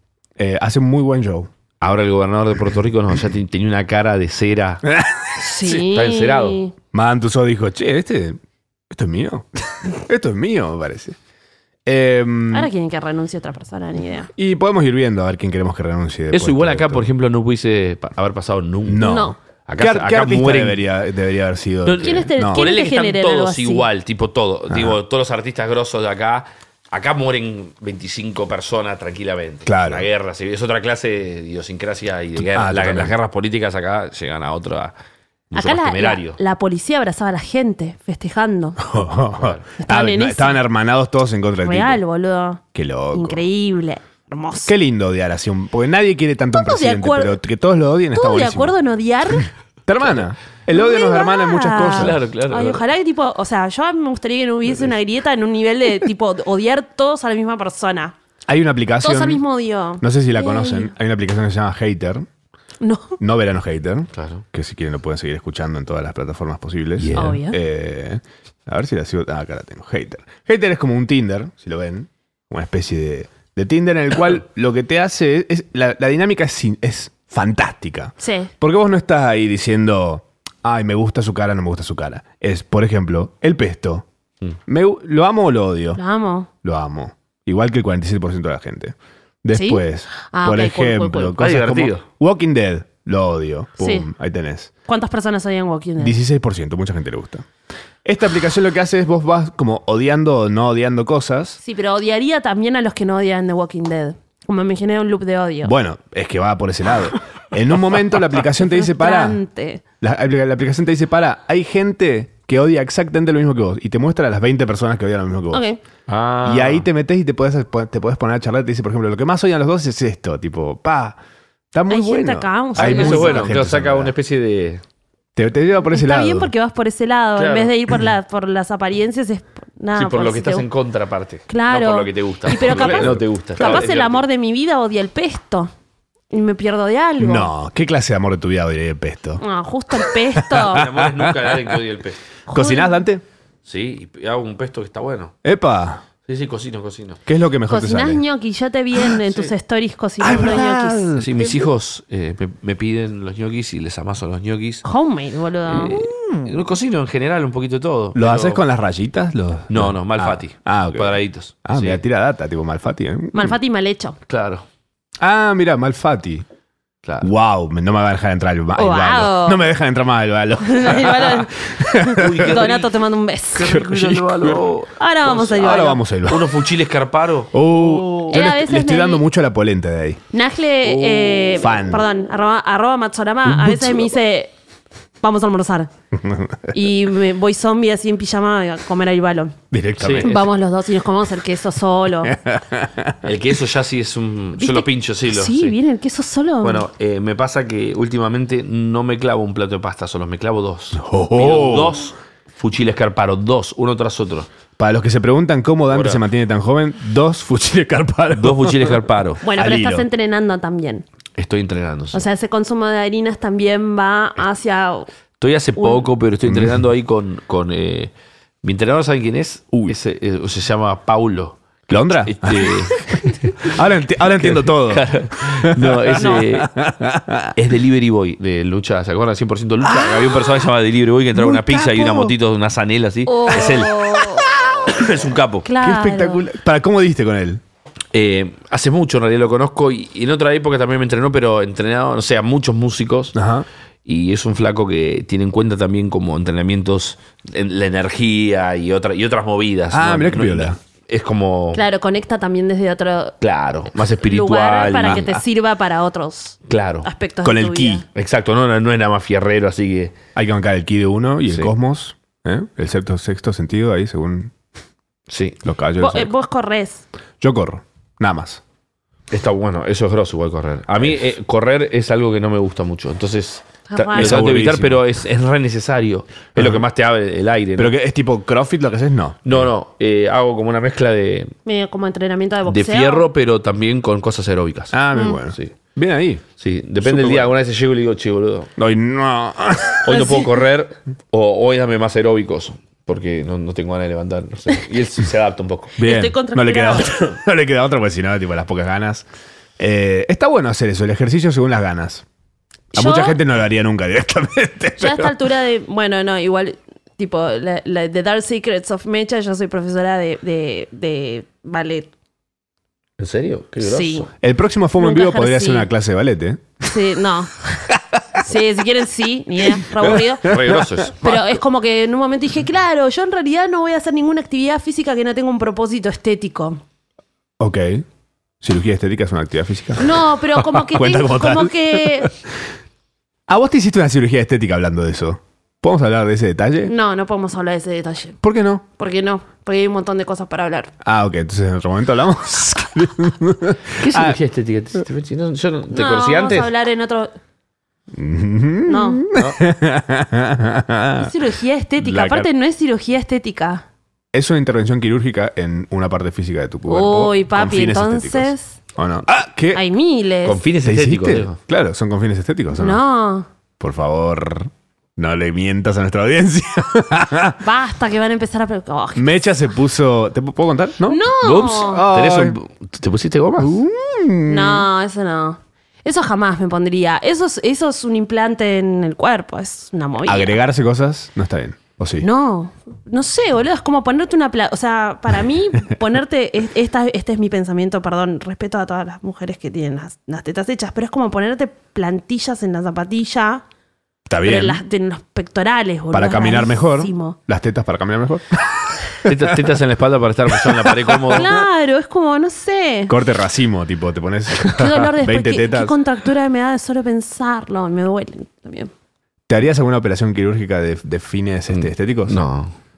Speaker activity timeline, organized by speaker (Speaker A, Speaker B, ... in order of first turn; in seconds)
Speaker A: 0.4-1.5, 4.8-5.3, 6.9-8.4, 8.9-11.2, 11.8-12.7, 14.3-17.1, 18.9-22.6, 24.7-25.0, 29.6-30.1, 32.4-33.1, 38.8-42.0, 42.7-43.4, 44.6-48.7, 49.9-52.2, 58.5-59.4, 60.0-62.3, 63.2-84.0, 84.7-86.0, 86.6-94.7, 96.0-97.5, 98.0-101.6, 105.6-109.4, 110.0-115.6, 116.4-121.2, 121.7-124.1, 125.3-126.5, 132.6-133.9, 137.2-139.4, 139.9-141.8, 142.5-143.2, 145.4-146.0, 147.2-148.2, 150.2-151.6, 155.8-156.5, 158.1-163.6, 165.2-166.4, 167.2-172.6, 173.6-174.6, 175.3-176.5, 177.5-180.2, 181.6-182.0, 183.4-184.1, 186.1-186.7, 189.7-190.4, 192.2-193.2, 200.9-202.0, 204.8-209.0, 209.5-210.1, 216.4-216.8, 221.9-227.5, 229.8-230.6, 231.3-232.3, 234.7-235.1, 235.8-237.6, 243.3-243.7, 249.9-250.8, 257.4-258.0, 260.3-264.5, 265.6-266.3, 267.4-268.6, 274.1-275.0, 276.6-276.8, 277.8-279.7, 284.9-286.4, 287.0-287.5, 288.8-290.3, 296.0-299.2, 299.8-302.2, 302.9-305.3, 314.4-316.8, 317.9-318.4, 319.7-321.3, 327.6-328.0, 328.6-332.4, 333.5-336.9, 338.4-338.8, 341.0-344.4, 348.1-351.3, 352.0-352.5, 354.3-359.8, 360.8-363.0, 363.8-367.6, 369.1-372.6, 373.6-374.9, 380.2-382.2, 394.3-394.8, 396.1-399.6, 400.5-401.4, 403.1-405.9, 409.5-412.4
Speaker B: 1.8-4.8, 5.6-6.6, 16.3-20.8, 21.9-34.9, 35.5-36.4, 39.4-39.6, 51.8-52.8, 64.1-64.4, 67.0-67.4, 91.4-92.0, 116.1-116.8, 122.8-124.8, 127.3-127.7, 129.9-134.2, 140.7-142.2, 143.6-145.3, 146.3-147.2, 151.2-154.8, 155.7-158.6, 159.7-162.0, 164.3-164.6, 167.0-167.3, 172.1-172.9, 173.5-175.6, 176.2-178.3, 180.8-181.5, 190.0-190.4, 193.2-195.7, 196.6-204.5, 205.9-206.2, 208.3-209.4, 211.4-212.2, 215.4-218.1, 218.6-221.6, 222.2-226.7, 227.6-235.7, 238.1-243.3, 244.1-251.8, 253.4-255.3, 256.7-257.1, 258.1-260.1, 265.3-265.6, 269.3-277.9, 279.4-281.5, 282.7-285.0, 286.6-288.7, 290.0-295.9, 313.2-314.3, 320.4-321.3, 343.9-346.7, 349.3-349.6, 360.4-361.6, 371.4-373.8, 399.2-401.5, 411.7-412.7
Speaker C: 5.4-6.7, 12.5-14.3, 19.0-19.4, 21.9-23.9, 35.5-38.8, 39.8-40.6, 41.6-42.6, 43.1-44.7, 46.5-47.4, 48.1-49.5, 50.7-58.1, 59.0-60.9, 62.8-63.2, 67.1-67.6, 78.2-78.5, 86.0-86.5, 89.5-91.4, 93.8-94.1, 94.8-96.2, 101.6-105.7, 108.7-109.8, 115.5-115.8, 121.9-123.5, 125.9-130.7, 131.5-135.7, 136.3-137.5, 139.4-140.8, 142.5-143.0, 147.7-151.1, 154.8-155.9, 163.3-164.2, 168.8-169.6, 170.6-173.8, 175.0-176.0, 178.3-179.2, 180.3-184.5, 185.2-185.9, 186.7-189.6, 190.2-192.3, 194.6-196.8, 209.4-211.0, 212.1-215.1, 215.8-216.1, 222.9-223.3, 226.2-226.4, 233.2-234.6, 235.6-236.4, 251.7-253.4, 254.2-258.0, 266.0-267.0, 273.9-274.4, 281.6-283.3, 290.1-290.5, 296.0-297.1, 302.9-303.4, 305.0-312.1, 313.8-314.3, 315.0-315.9, 316.9-320.6, 321.2-326.8, 330.0-332.3, 336.8-338.4, 339.0-340.9, 345.9-347.3, 348.9-349.2, 351.2-353.8, 356.9-358.8, 359.7-360.6, 362.8-363.5, 367.6-369.3, 371.1-372.0, 374.4-380.6, 382.2-393.6, 394.4-397.4, 401.3-403.1, 404.6-408.9